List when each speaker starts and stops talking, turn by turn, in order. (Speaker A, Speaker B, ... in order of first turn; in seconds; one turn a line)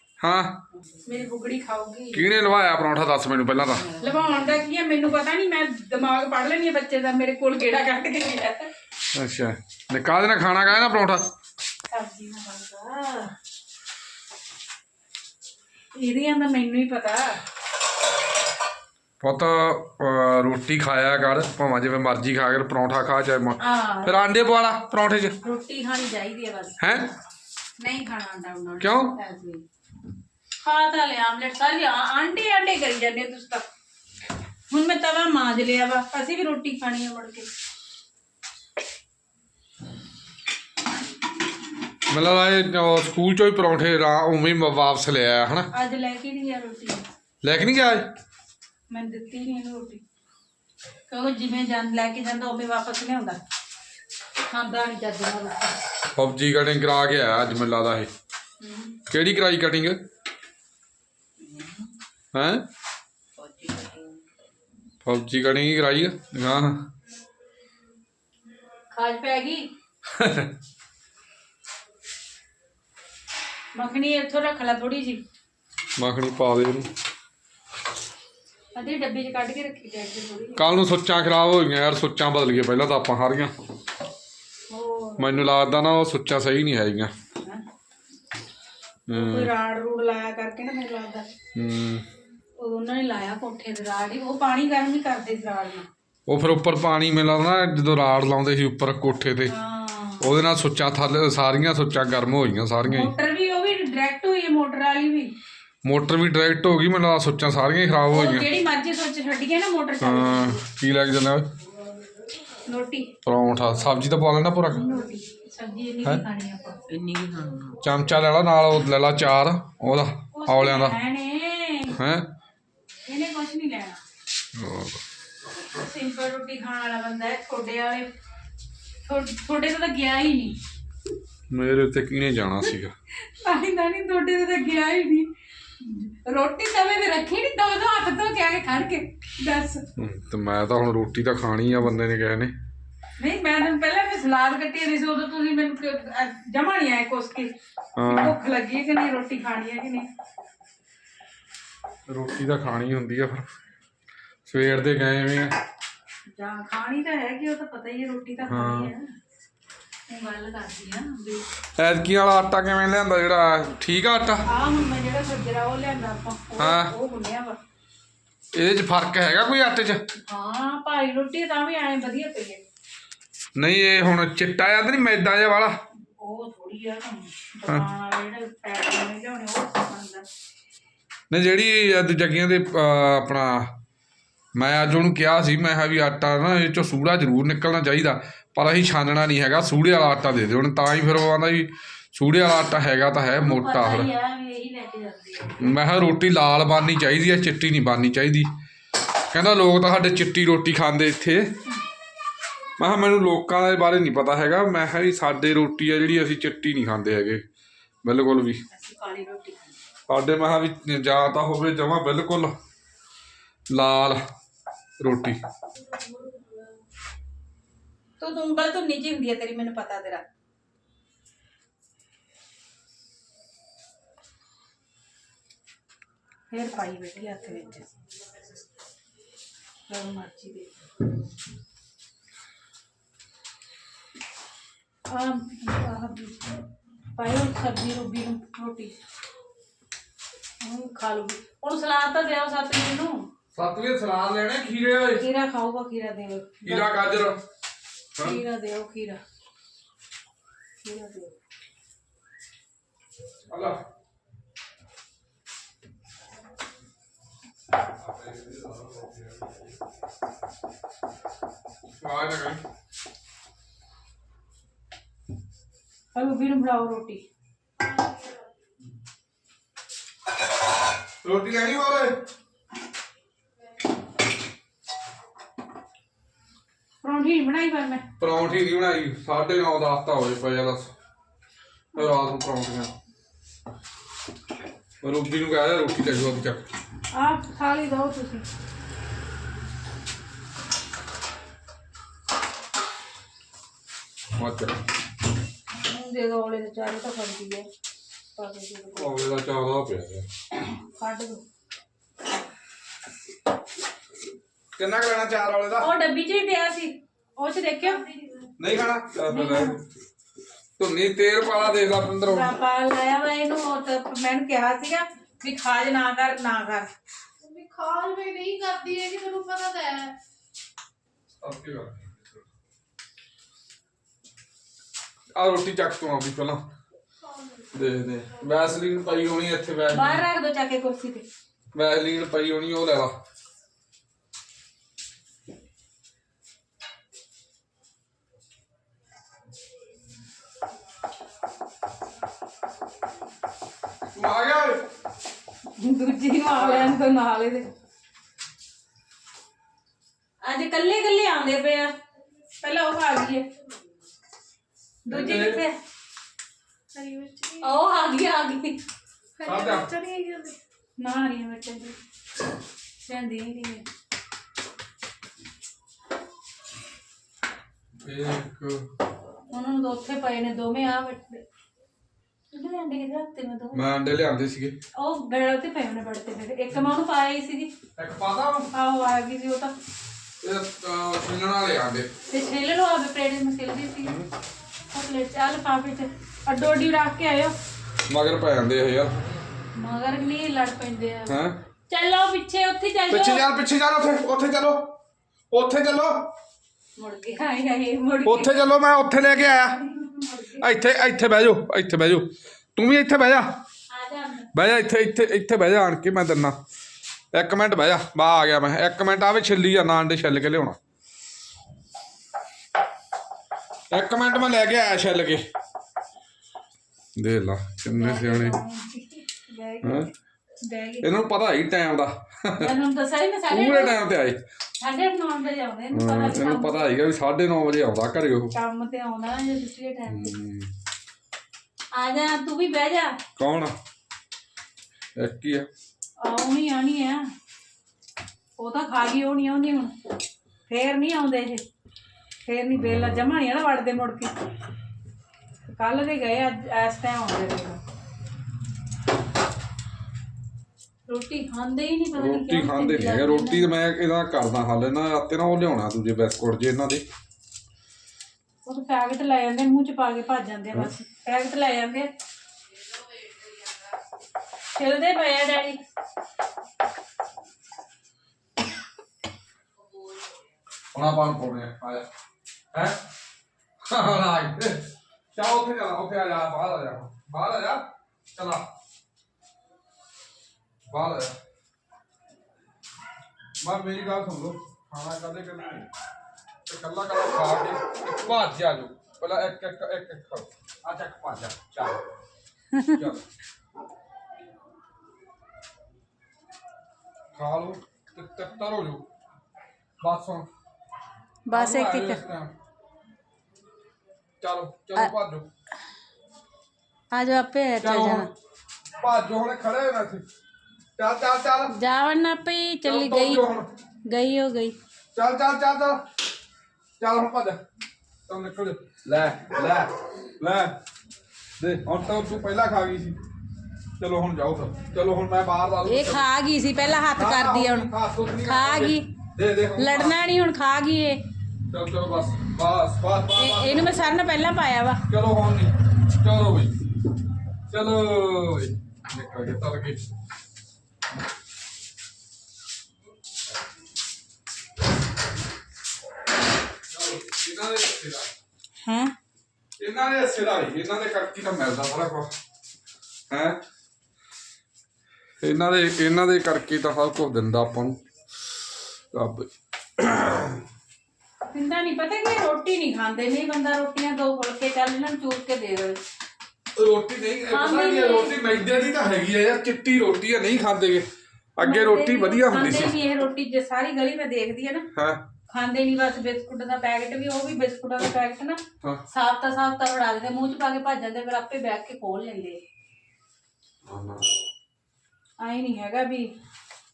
Speaker A: 0.2-0.6
Speaker B: 1.0-2.3
Speaker A: 2.1-3.9
Speaker C: 3.8-4.5
Speaker B: 4.0-8.7
Speaker A: 9.1-11.3
Speaker B: 11.9-13.3
Speaker B: 16.0-17.4
Speaker A: 19.2-25.4
Speaker B: 23.6-24.2
Speaker B: 25.4-27.0
Speaker A: 26.8-27.1
Speaker B: 27.8-29.6
Speaker A: 28.8-29.1
Speaker B: 30.6-33.7
Speaker B: 34.7-37.5
Speaker A: 42.1-45.7
Speaker B: 45.7-47.0
Speaker A: 47.4-48.1
Speaker B: 48.9-50.0
Speaker B: 51.1-53.4
Speaker B: 54.5-55.8
Speaker A: 56.1-58.1
Speaker B: 58.6-58.9
Speaker A: 59.1-60.0
Speaker C: 61.4-61.9
Speaker A: 62.3-62.6
Speaker C: 63.4-64.2
Speaker A: 65.0-66.9
Speaker B: 68.9-69.7
Speaker A: 70.0-70.5
Speaker B: 73.7-75.2
Speaker A: 76.0-76.9
Speaker B: 78.8-80.7
Speaker A: 80.5-83.5
Speaker B: 84.7-85.4
Speaker A: 85.2-87.1
Speaker A: 89.1-89.5
Speaker B: 89.1-91.3
Speaker A: 91.5-92.0
Speaker B: 92.6-95.9
Speaker A: 96.3-99.5
Speaker B: 99.5-100.3
Speaker A: 100.2-103.1
Speaker B: 102.8-105.3
Speaker A: 105.8-108.5
Speaker B: 108.1-110.6
Speaker A: 110.0-111.5
Speaker B: 112.7-113.1
Speaker A: 113.2-114.9
Speaker B: 114.7-116.8
Speaker C: 116.9-117.8
Speaker A: 117.8-121.0
Speaker B: 120.3-122.0
Speaker A: 122.0-122.3
Speaker B: 123.0-124.0
Speaker A: 124.5-125.0
Speaker B: 125.6-128.1
Speaker B: 129.1-130.6
Speaker A: 131.5-132.9
Speaker B: 133.2-139.8
Speaker A: 140.0-142.6
Speaker B: 143.2-150.1
Speaker A: 148.0-148.4
Speaker A: 152.1-153.5
Speaker A: 154.5-155.5
Speaker B: 156.3-159.1
Speaker A: 158.5-158.9
Speaker B: 160.1-161.5
Speaker A: 161.8-164.4
Speaker B: 164.5-167.6
Speaker A: 166.6-166.9
Speaker A: 168.5-170.0
Speaker B: 170.3-172.7
Speaker A: 173.6-175.8
Speaker B: 176.2-180.3
Speaker A: 181.3-183.7
Speaker A: 184.6-194.1
Speaker B: 193.4-195.6
Speaker A: 195.6-198.5
Speaker A: 199.3-201.5
Speaker A: 202.8-207.4
Speaker A: 208.0-208.6
Speaker B: 208.7-209.8
Speaker A: 210.1-212.5
Speaker A: 213.7-214.2
Speaker A: 215.0-215.4
Speaker B: 218.2-220.2
Speaker B: 226.5-227.9
Speaker B: 229.9-230.7
Speaker B: 235.1-236.6
Speaker B: 237.2-238.9
Speaker B: 240.6-243.3
Speaker A: 243.5-245.2
Speaker B: 245.2-247.2
Speaker A: 246.7-247.4
Speaker B: 248.2-249.2
Speaker B: 250.8-251.3
Speaker A: 253.5-253.8
Speaker A: 258.0-259.6
Speaker A: 262.0-262.6
Speaker B: 266.1-267.2
Speaker A: 271.2-272.2
Speaker B: 277.0-278.0
Speaker A: 278.2-280.9
Speaker A: 281.9-282.9
Speaker A: 285.0-286.6
Speaker B: 287.1-288.4
Speaker A: 294.3-294.8
Speaker B: 295.8-297.7
Speaker B: 298.4-299.1
Speaker A: 298.9-300.3
Speaker B: 300.6-301.4
Speaker A: 304.8-305.9
Speaker B: 305.8-308.0
Speaker A: 308.6-309.8
Speaker B: 309.3-309.8
Speaker A: 310.8-312.5
Speaker B: 312.2-316.9
Speaker D: 317.4-320.1
Speaker A: 321.4-322.4
Speaker A: 325.3-326.6
Speaker A: 327.7-330.2
Speaker B: 329.9-331.2
Speaker A: 331.7-333.1
Speaker A: 344.1-344.8
Speaker B: 345.8-347.7
Speaker A: 346.6-346.9
Speaker B: 350.4-351.9
Speaker B: 352.6-353.5
Speaker B: 355.1-355.8
Speaker A: 355.1-355.6
Speaker D: 356.9-357.6
Speaker B: 357.6-358.8
Speaker D: 359.4-360.6
Speaker A: 359.4-359.9
Speaker B: 361.0-362.0
Speaker B: 363.0-363.8
Speaker A: 368.0-368.9
Speaker B: 369.5-371.4
Speaker B: 372.5-373.9
Speaker A: 373.7-374.8
Speaker B: 374.9-377.7
Speaker A: 378.0-378.7
Speaker B: 378.7-379.7
Speaker A: 380.4-382.1
Speaker B: 382.3-384.2
Speaker B: 384.9-387.6
Speaker A: 388.1-389.2
Speaker B: 389.8-393.5
Speaker A: 391.3-391.6
Speaker A: 393.1-394.9
Speaker A: 395.5-396.3
Speaker B: 397.0-398.7
Speaker A: 398.2-399.8
Speaker B: 399.7-400.7
Speaker A: 400.6-403.5
Speaker B: 403.9-404.5
Speaker A: 404.5-406.6
Speaker A: 407.3-410.8
Speaker A: 413.9-415.4
Speaker A: 417.1-418.6
Speaker B: 417.9-420.1
Speaker A: 419.8-420.1
Speaker B: 420.6-421.1
Speaker A: 421.0-422.7
Speaker B: 422.6-424.0
Speaker A: 423.5-424.4
Speaker B: 424.8-426.8
Speaker A: 425.9-428.5
Speaker B: 428.5-430.3
Speaker A: 430.1-430.7
Speaker B: 431.9-433.2
Speaker A: 433.4-433.8
Speaker A: 435.1-435.7
Speaker B: 436.2-437.3
Speaker B: 438.6-439.9
Speaker B: 440.7-441.6
Speaker B: 442.4-444.3
Speaker A: 442.8-443.3
Speaker B: 445.7-447.8
Speaker B: 451.1-453.7
Speaker A: 452.1-457.0
Speaker B: 458.6-462.1
Speaker B: 464.7-465.8
Speaker A: 470.9-472.1
Speaker A: 472.7-473.0
Speaker A: 473.8-478.6
Speaker A: 480.9-481.3
Speaker A: 483.6-485.9
Speaker A: 486.6-492.0
Speaker B: 492.7-493.0
Speaker A: 492.9-493.2
Speaker A: 497.3-499.1
Speaker A: 500.0-500.5
Speaker B: 501.4-502.2
Speaker A: 501.5-502.5
Speaker A: 504.4-505.5
Speaker B: 507.1-508.3
Speaker A: 507.8-508.3
Speaker A: 509.0-510.2
Speaker A: 511.0-511.7
Speaker B: 511.7-513.5
Speaker A: 512.8-513.7
Speaker B: 514.1-514.8
Speaker A: 515.1-516.0
Speaker A: 517.0-517.6
Speaker A: 518.3-520.8
Speaker A: 521.6-523.2
Speaker A: 524.0-526.3
Speaker B: 525.9-527.9
Speaker A: 527.2-530.2
Speaker B: 528.5-529.1
Speaker B: 529.8-531.2
Speaker A: 531.7-533.9
Speaker B: 533.3-535.0
Speaker A: 535.1-536.8
Speaker A: 537.7-540.0
Speaker A: 546.9-548.3
Speaker B: 548.8-549.1
Speaker A: 549.8-552.3
Speaker A: 553.3-553.6
Speaker A: 555.4-558.0
Speaker A: 559.1-560.6
Speaker B: 561.5-566.0
Speaker A: 566.8-573.0
Speaker B: 567.5-568.4
Speaker B: 571.6-574.9
Speaker A: 574.9-575.2
Speaker B: 575.5-582.6
Speaker A: 583.9-584.2
Speaker B: 585.4-586.3